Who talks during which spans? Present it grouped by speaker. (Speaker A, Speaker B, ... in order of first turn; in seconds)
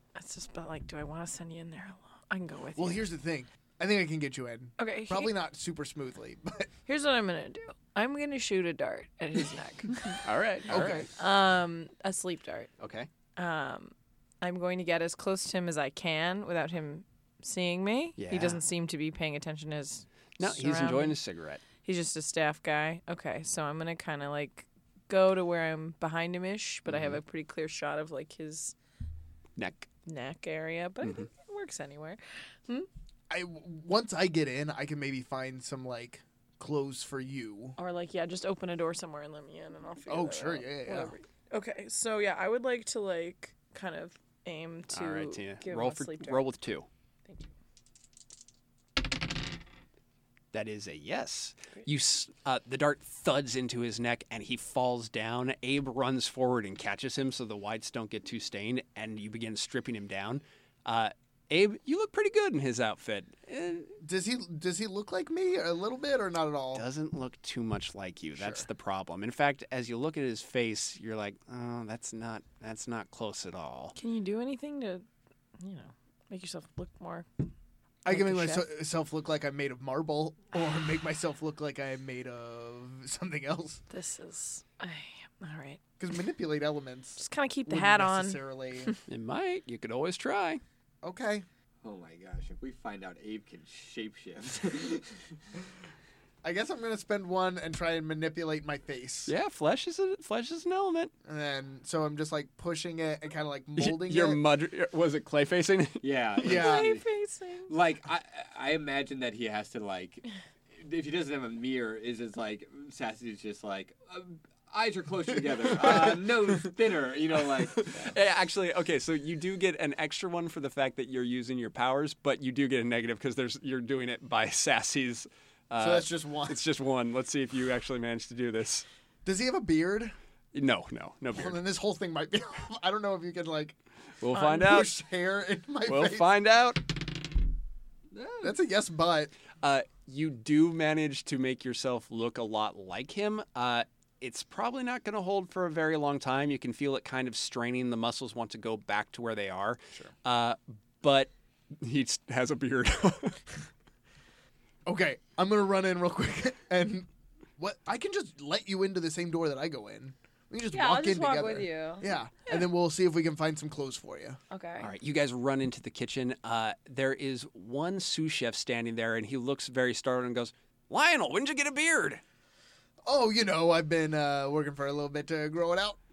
Speaker A: 0.1-3.1, 4.8-5.3, 6.9-12.7, 13.3-21.2, 21.8-28.7, 30.1-32.9, 37.8-46.5, 47.2-47.5, 74.0-75.0, 75.6-77.3, 78.1-78.7, 83.9-85.8, 87.2-89.0, 106.4-107.7, 160.7-162.6, 164.5-164.9
Speaker B: 2.8-6.7, 10.7-11.1, 33.3-37.8, 40.1-41.1, 64.0-66.8, 68.4-68.6, 78.0-83.8, 86.0-88.9, 91.0-91.4, 96.4-99.3, 101.2-104.4, 106.4-106.9, 125.8-126.6, 129.2-130.1, 131.3-133.8, 134.3-136.2, 138.4-139.3, 154.8-164.4, 173.0-176.0
Speaker C: 10.2-11.1, 12.8-13.1, 18.2-18.6, 20.4-21.6, 26.9-27.2, 29.6-29.9, 44.9-46.9, 50.5-64.0, 66.7-74.0, 89.1-90.6, 99.3-101.1, 103.8-106.1, 115.8-116.2, 117.6-128.9, 130.5-131.6, 134.2-135.0, 135.8-136.9, 139.6-153.4, 164.8-172.2
Speaker D: 91.8-95.4, 106.0-107.0, 107.7-118.1, 138.1-138.5